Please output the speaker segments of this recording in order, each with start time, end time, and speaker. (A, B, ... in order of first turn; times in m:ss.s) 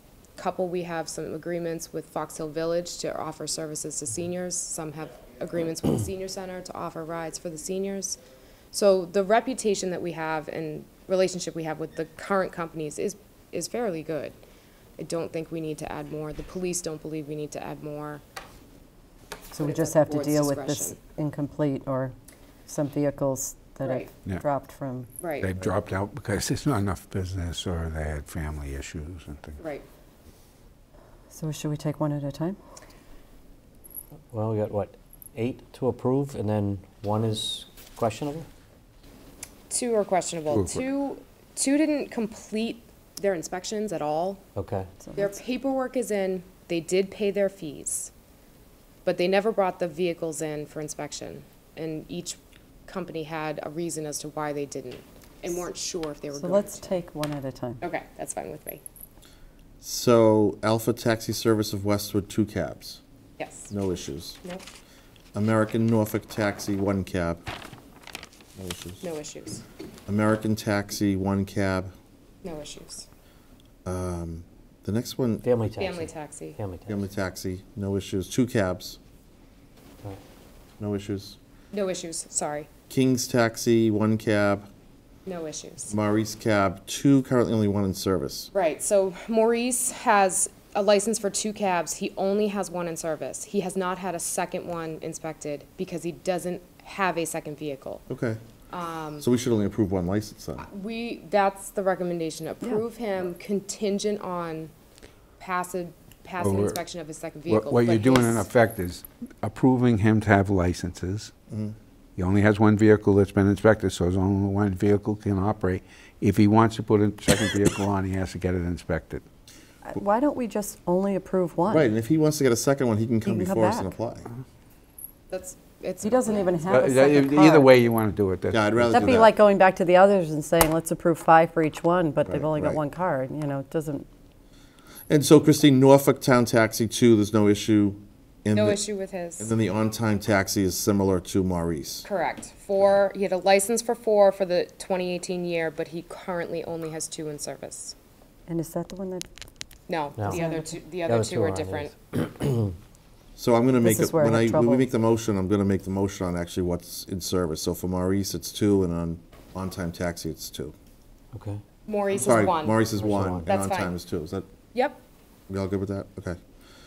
0:00.4-0:08.2 A
0:08.7-0:14.4 A
0:15.0-0:18.2 A
0:19.5-0:22.2 B
0:19.6-0:21.0 A
0:22.7-0:25.1 B
0:23.8-0:24.1 A
0:25.2-0:25.5 A
0:25.4-0:29.6 C
0:29.6-0:29.8 A
0:31.3-0:32.6 B
0:34.3-0:38.5 D
0:39.7-0:44.4 A
0:44.6-0:44.9 D
0:45.0-0:45.4 B
0:45.2-0:48.1 A
0:49.0-0:56.9 A
0:56.3-0:57.8 B
0:57.8-0:58.8 A
0:59.8-1:03.0 E
1:03.4-1:03.7 A
1:03.7-1:04.4 E
1:05.4-1:07.4 E
1:08.6-1:09.0 E
1:09.0-1:09.6 A
1:10.1-1:11.9 E
1:12.4-1:13.1 A
1:13.8-1:15.5 E
1:15.4-1:17.1 D
1:15.8-1:16.6 A
1:16.9-1:19.0 E
1:20.8-1:21.4 E
1:21.7-1:22.7 A
1:22.9-1:24.7 E
1:25.2-1:26.0 A
1:25.9-1:28.5 E
1:28.5-1:38.0 A
1:38.1-1:38.4 E
1:38.7-1:39.2 A
1:39.2-1:40.7 E
1:40.6-1:44.7 A
1:45.4-1:48.5 A
1:46.4-1:46.8 C
1:47.5-1:51.3 C
1:52.2-1:59.2 C
1:59.8-2:01.9 B
2:01.7-2:04.3 E
2:03.2-2:03.9 B
2:05.3-2:06.8 A
2:06.0-2:07.7 B
2:06.7-2:09.1 C
2:08.5-2:09.3 E
2:08.9-2:14.1 B
2:12.3-2:12.8 E
2:15.1-2:18.8 E
2:18.5-2:19.5 A
2:19.4-2:22.1 E
2:22.0-2:28.0 A
2:28.5-2:29.3 B
2:29.9-2:32.0 A
2:30.2-2:30.4 D
2:30.3-2:30.7 B
2:31.0-2:32.7 D
2:33.4-2:40.7 E
2:33.8-2:34.9 B
2:41.3-2:41.6 D
2:41.9-2:42.9 A
2:42.1-2:44.5 E
2:43.0-2:43.5 D
2:43.4-2:43.9 A
2:45.5-2:46.4 E